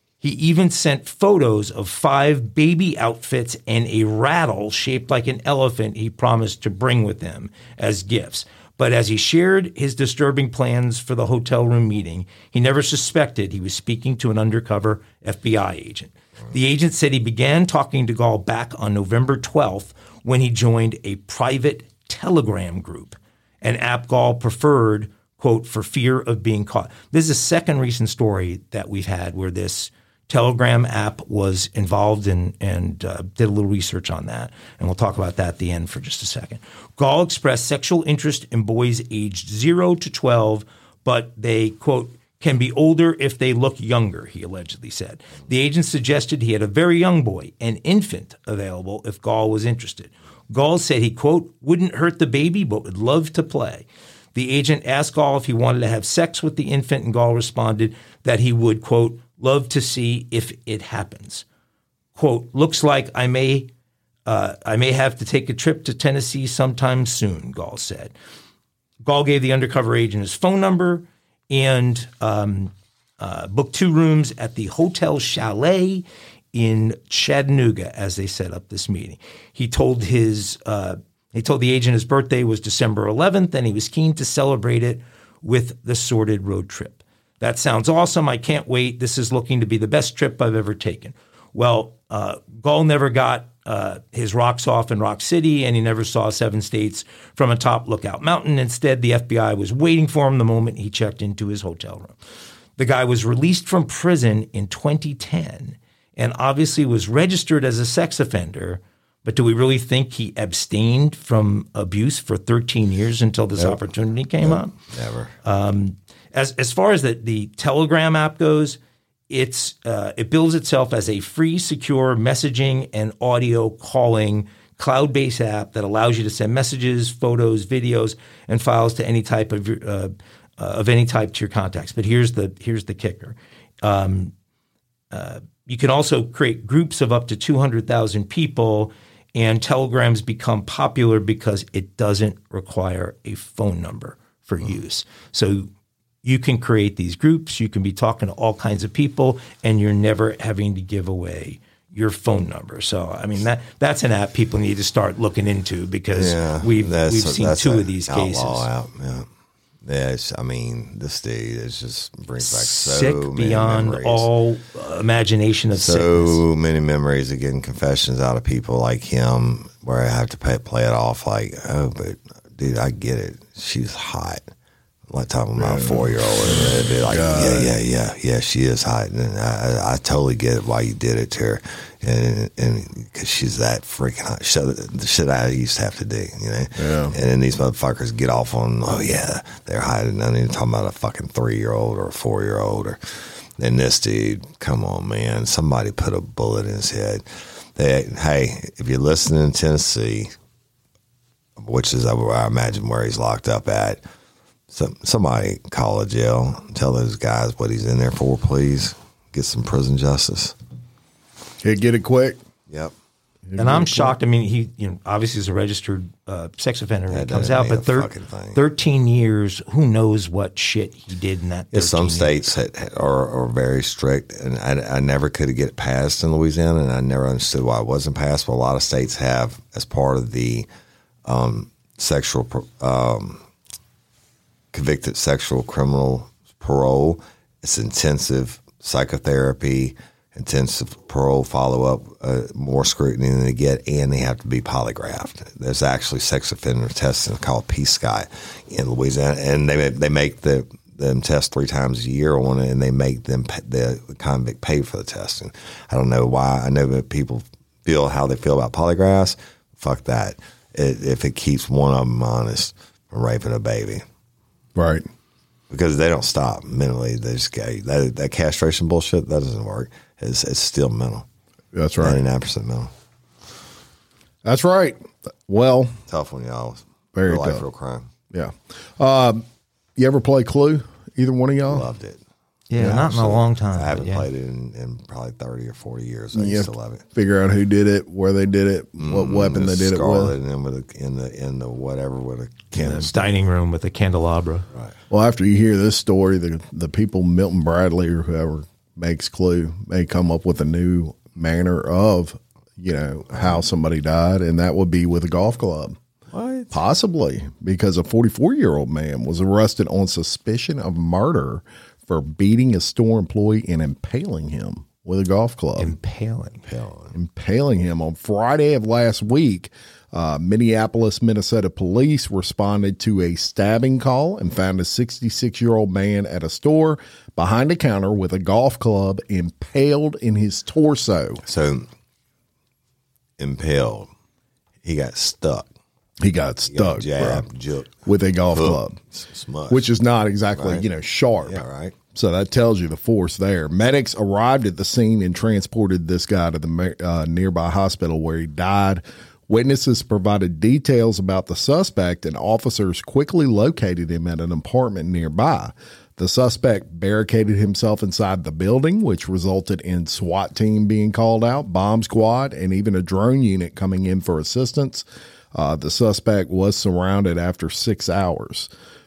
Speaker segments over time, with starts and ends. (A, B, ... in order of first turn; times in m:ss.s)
0:00.2-1:01.4 A
1:02.1-1:03.7 A
1:04.3-1:08.1 A
1:09.0-1:42.2 A
1:42.8-1:54.7 A
1:54.4-1:55.3 B
1:55.4-1:58.8 A
1:59.3-2:14.3 A
2:15.1-2:25.7 A
2:26.2-2:38.7 A
2:36.1-2:39.3 B
2:39.8-2:44.3 B
2:42.4-2:46.4 A
2:45.7-2:54.4 B
2:55.1-3:20.3 B
2:55.6-2:57.7 C
3:06.8-3:07.1 C
3:21.6-3:24.0 B
3:24.7-3:30.5 B
3:31.6-3:32.4 C
3:33.5-3:34.1 C
3:33.6-3:42.5 A
3:37.1-3:38.6 B
3:41.7-3:50.6 B
3:51.2-3:53.4 B
3:54.7-4:24.0 B
4:24.8-4:25.0 C
4:25.7-4:31.2 B
4:31.7-4:32.2 C
4:32.0-4:32.9 B
4:34.4-4:36.0 C
4:36.1-4:38.1 B
4:37.1-4:37.6 C
4:38.3-4:39.4 C
4:40.0-4:41.9 C
4:41.7-4:42.2 B
4:42.7-4:44.3 A
4:42.8-4:47.0 B
4:42.8-4:43.0 C
4:46.3-4:50.4 C
4:49.0-4:53.2 B
4:52.7-4:54.7 A
4:55.1-5:06.0 C
5:06.3-5:06.8 B
5:06.7-5:16.0 C
5:15.8-5:16.6 A
5:16.6-5:17.1 B
5:17.1-5:31.4 C
5:31.4-5:31.9 B
5:33.4-5:34.1 B
5:34.8-5:35.6 B
5:36.2-5:37.4 C
5:36.7-5:39.8 B
5:38.0-5:39.0 C
5:39.7-5:41.6 C
5:40.5-5:40.8 B
5:41.4-5:42.0 B
5:42.1-6:08.7 C